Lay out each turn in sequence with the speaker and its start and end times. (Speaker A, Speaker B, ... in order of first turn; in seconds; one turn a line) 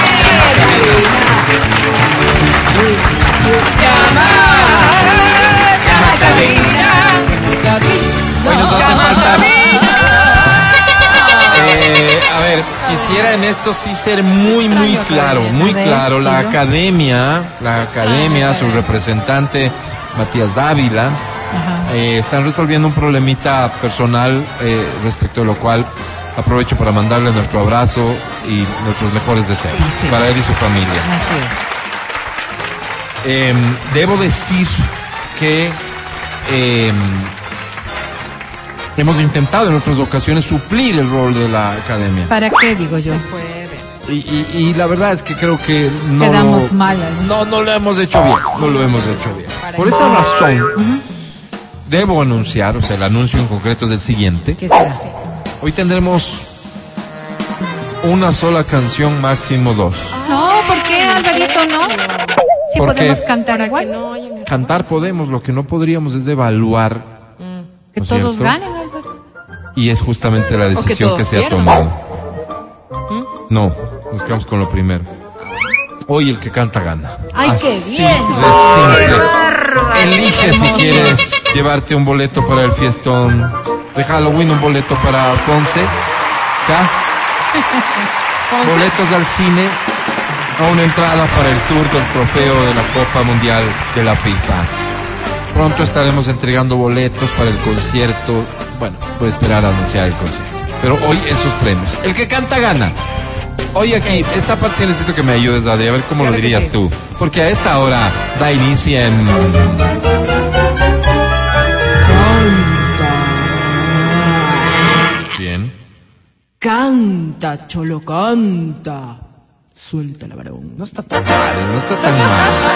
Speaker A: 0.6-1.1
Speaker A: 5.8-6.8
Speaker B: 6.0-6.8
Speaker C: 6.5-7.0
Speaker A: 8.4-9.6
Speaker B: 8.4-9.2
Speaker A: 11.5-21.2
Speaker B: 14.6-15.5
Speaker C: 15.5-16.6
Speaker B: 18.0-18.7
Speaker C: 21.5-21.9
Speaker A: 21.8-31.1
Speaker C: 29.8-30.2
Speaker C: 31.0-31.5
Speaker A: 33.2-35.8
Speaker A: 36.5-37.3
Speaker A: 39.0-42.3
Speaker C: 42.3-43.2
Speaker B: 42.9-43.9
Speaker A: 44.0-50.7
Speaker C: 46.2-47.4
Speaker B: 48.7-50.3
Speaker C: 50.7-51.0
Speaker A: 51.9-54.6
Speaker C: 54.6-55.0
Speaker A: 55.6-56.5
Speaker A: 58.0-60.2
Speaker B: 60.2-62.4
Speaker C: 60.2-62.0
Speaker C: 62.7-63.9
Speaker A: 62.8-63.2
Speaker B: 63.5-64.9
Speaker A: 64.5-67.1
Speaker B: 67.4-67.7
Speaker C: 68.0-69.1
Speaker A: 68.0-68.6
Speaker A: 69.8-72.0
Speaker B: 70.8-71.8
Speaker A: 73.5-75.1
Speaker A: 76.1-79.3
Speaker C: 77.3-81.2
Speaker A: 79.9-85.9
Speaker A: 86.6-86.9
Speaker A: 88.6-89.8
Speaker A: 90.6-94.7
Speaker A: 95.5-103.0
Speaker A: 103.7-110.0
Speaker C: 106.3-106.7
Speaker D: 112.0-114.2
Speaker A: 115.3-115.7
Speaker D: 116.6-119.1
Speaker D: 119.8-120.7
Speaker A: 120.8-122.6